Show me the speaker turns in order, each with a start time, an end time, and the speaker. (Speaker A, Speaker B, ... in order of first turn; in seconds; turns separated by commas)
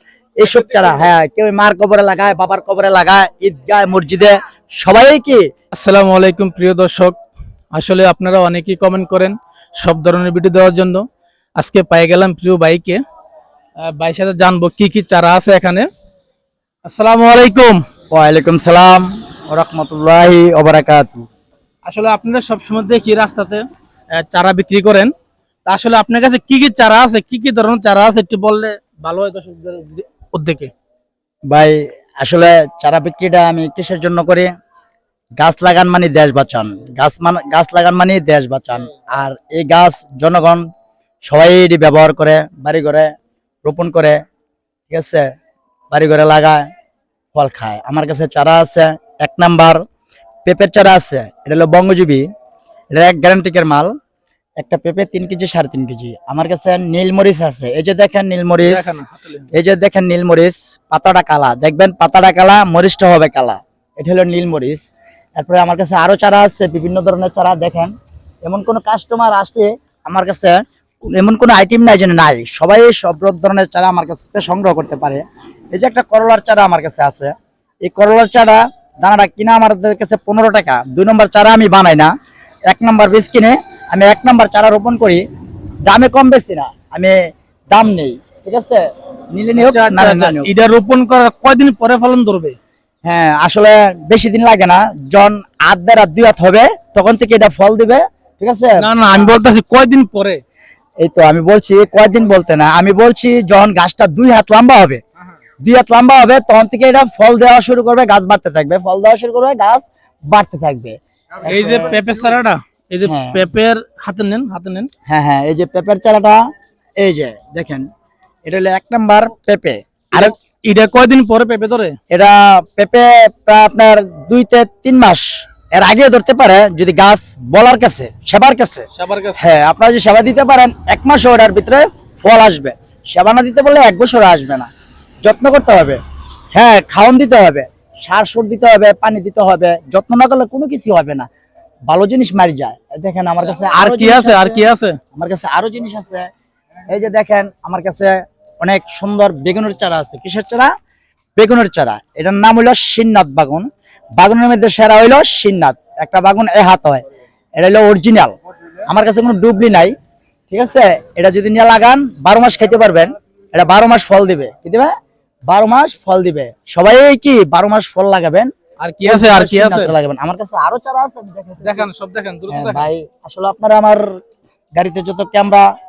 Speaker A: 0.4-5.5, Speaker B: 5.7-7.2, Speaker B: 7.7-11.0, Speaker B: 11.6-13.0, Speaker B: 13.8-15.9, Speaker B: 16.9-17.8, Speaker A: 18.1-21.3, Speaker B: 21.8-23.6, Speaker B: 24.1-25.1, Speaker B: 25.6-30.7, Speaker A: 31.5-34.5, Speaker A: 35.4-40.6, Speaker A: 41.2-43.1, Speaker A: 43.6-44.2, Speaker A: 44.9-45.3, Speaker A: 45.9-46.7, Speaker A: 47.3-49.8, Speaker A: 50.4-52.2, Speaker A: 52.9-53.9, Speaker A: 54.6-59.0, Speaker B: 58.6-59.5, Speaker A: 59.5-64.8, Speaker A: 65.4-70.6, Speaker A: 71.1-77.3, Speaker A: 77.8-82.1, Speaker A: 82.7-85.2, Speaker A: 85.9-87.2, Speaker A: 87.7-90.5, Speaker B: 89.6-92.5, Speaker A: 93.0-98.9, Speaker B: 98.8-100.4, Speaker A: 101.0-105.0, Speaker A: 105.6-112.0, Speaker B: 111.5-114.9, Speaker A: 113.0-113.4, Speaker A: 115.1-116.4, Speaker A: 117.0-117.9, Speaker A: 118.5-120.3, Speaker B: 120.1-122.0, Speaker A: 122.1-134.7, Speaker B: 128.9-129.4, Speaker A: 135.2-136.0, Speaker A: 136.5-141.3, Speaker A: 141.9-144.6, Speaker B: 143.6-145.0, Speaker A: 145.1-146.3, Speaker A: 146.9-150.7, Speaker A: 151.3-153.7, Speaker A: 154.2-157.0, Speaker A: 157.6-158.3, Speaker A: 158.8-159.9, Speaker A: 160.5-164.9, Speaker A: 165.5-168.5, Speaker B: 168.8-169.9, Speaker A: 169.0-171.9, Speaker B: 171.6-172.9, Speaker A: 172.5-174.1, Speaker A: 174.8-175.7